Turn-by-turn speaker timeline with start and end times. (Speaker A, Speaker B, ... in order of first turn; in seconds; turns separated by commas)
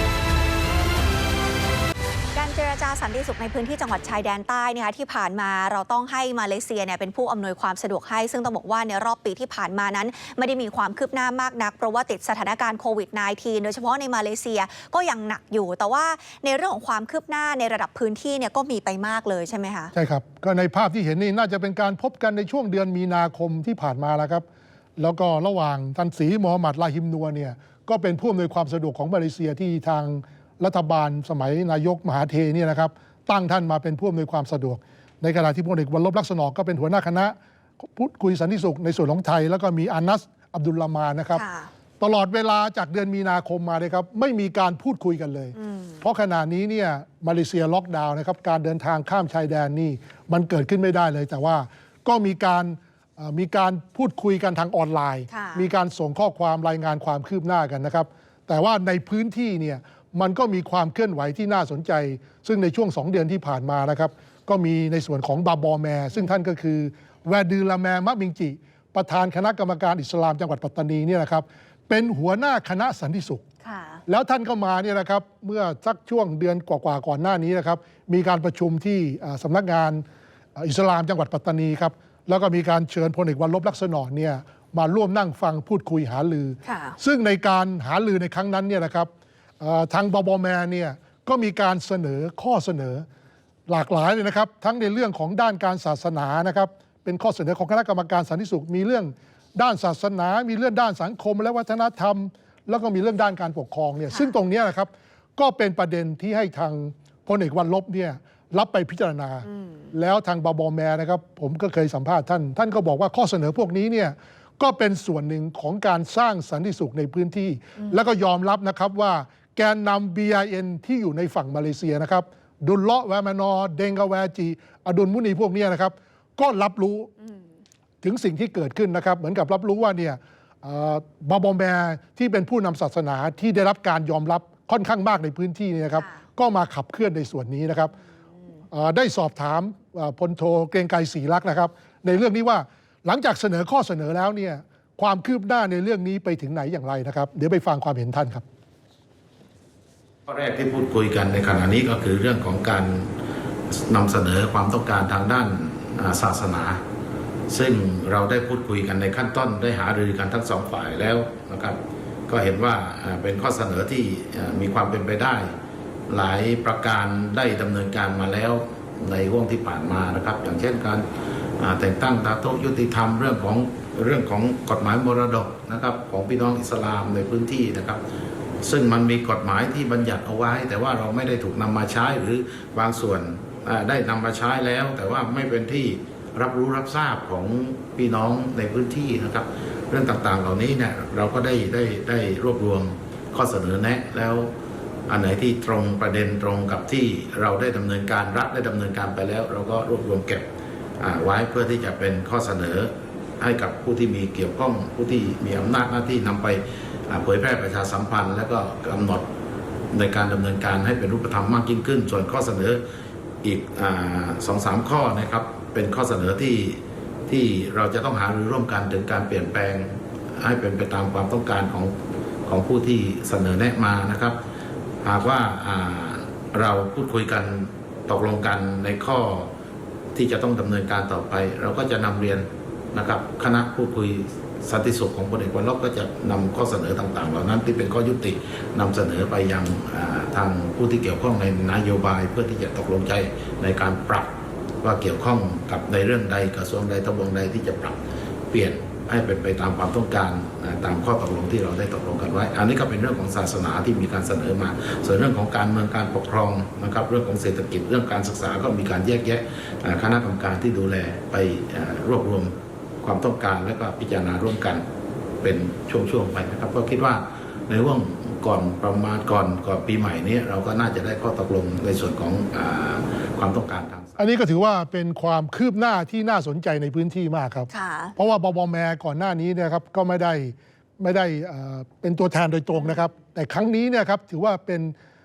Speaker A: 2.3-19.9, Speaker B: 19.9-24.4, Speaker B: 25.0-41.4, Speaker A: 41.3-41.7, Speaker B: 42.0-73.4, Speaker A: 45.6-46.0, Speaker A: 55.3-55.6, Speaker A: 73.6-74.0, Speaker B: 74.1-80.0, Speaker B: 80.5-89.1, Speaker A: 86.6-87.0, Speaker B: 89.6-93.0, Speaker B: 93.7-127.1, Speaker A: 109.5-109.9, Speaker B: 128.0-137.9, Speaker B: 138.7-148.4, Speaker C: 150.3-153.1, Speaker C: 153.7-156.8, Speaker C: 157.5-165.5, Speaker C: 166.1-171.1, Speaker C: 171.6-178.0, Speaker C: 178.6-194.5, Speaker C: 195.1-200.4, Speaker C: 201.0-209.2, Speaker C: 209.9-212.8, Speaker C: 213.4-221.9, Speaker C: 222.4-224.4, Speaker C: 225.0-229.5, Speaker C: 230.1-244.3, Speaker C: 244.8-248.0, Speaker C: 248.5-264.8, Speaker C: 265.4-274.2, Speaker B: 274.2-284.9, Speaker A: 277.7-278.1